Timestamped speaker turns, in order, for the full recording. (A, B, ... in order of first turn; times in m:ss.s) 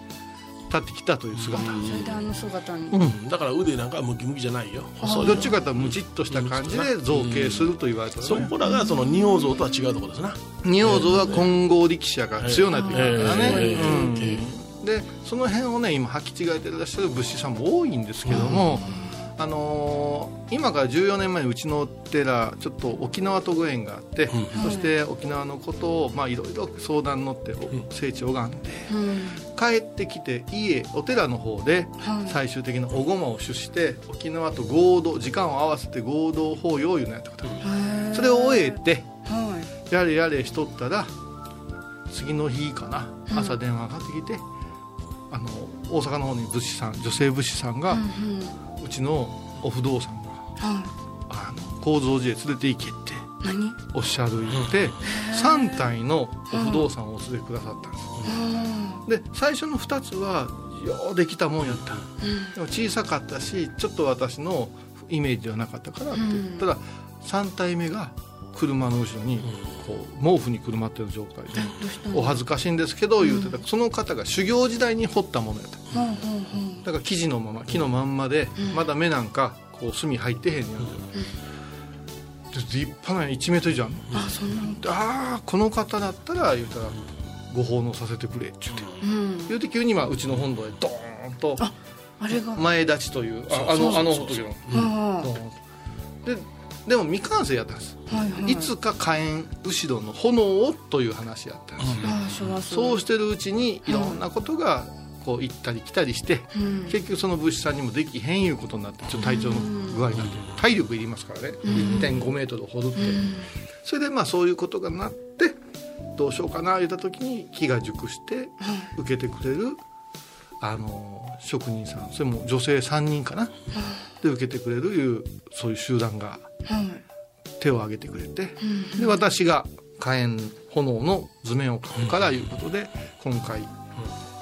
0:00.7-0:01.8 A
0:01.4-0:02.1 B
0:01.6-0:03.0 C
0:02.9-0:03.2 A
0:03.0-0:11.5 B
0:05.0-0:05.5 C
0:05.2-0:08.5 A
0:08.6-0:09.5 C
0:10.6-0:29.0 A
0:12.4-0:14.5 B
0:12.7-0:14.2 C
0:18.3-0:18.6 B
0:18.3-0:19.2 C
0:24.3-0:24.6 B
0:24.6-0:24.9 C
0:28.9-0:29.4 C
0:29.5-0:39.1 A
0:32.0-0:32.4 C
0:37.6-0:39.7 C
0:39.9-0:41.1 A
0:42.1-0:44.4 A
0:43.3-0:43.6 C
0:45.3-0:48.0 A
0:47.9-0:48.6 C
0:48.8-0:50.5 A
0:50.6-0:50.9 C
0:51.3-0:53.3 A
0:53.4-0:53.8 C
0:53.9-0:58.3 A
0:54.5-0:54.9 B
0:55.0-0:55.9 C
0:56.5-0:56.9 C
0:58.2-0:59.0 C
0:59.1-1:15.9 A
1:02.2-1:02.6 C
1:06.1-1:06.7 C
1:11.6-1:12.4 C
1:13.2-1:13.6 C
1:15.9-1:16.8 C
1:16.8-1:21.1 A
1:18.6-1:18.9 C
1:22.5-1:24.1 A
1:24.1-1:24.8 C
1:24.8-1:28.9 A
1:28.7-1:29.0 B
1:29.0-1:29.6 C
1:29.5-1:31.7 A
1:31.6-1:32.7 C
1:32.5-1:35.6 A
1:33.5-1:34.9 B
1:33.7-1:34.0 C
1:34.7-1:35.3 C
1:36.2-1:42.2 A
1:38.1-1:38.7 C
1:41.8-1:42.4 B
1:42.0-1:43.0 C
1:42.7-1:53.3 A
1:43.8-1:44.2 C
1:46.5-1:47.0 C
1:49.2-1:50.0 C
1:50.2-1:50.5 B
1:51.6-1:52.1 C
1:51.7-1:52.1 B
1:53.0-1:53.5 C
1:53.8-1:55.6 A
1:56.2-1:59.8 A
1:58.6-1:58.9 C
2:00.6-2:03.5 A
2:03.7-2:04.1 C
2:04.2-2:06.5 A
2:06.7-2:07.0 C
2:07.6-2:13.8 A
2:08.6-2:09.2 C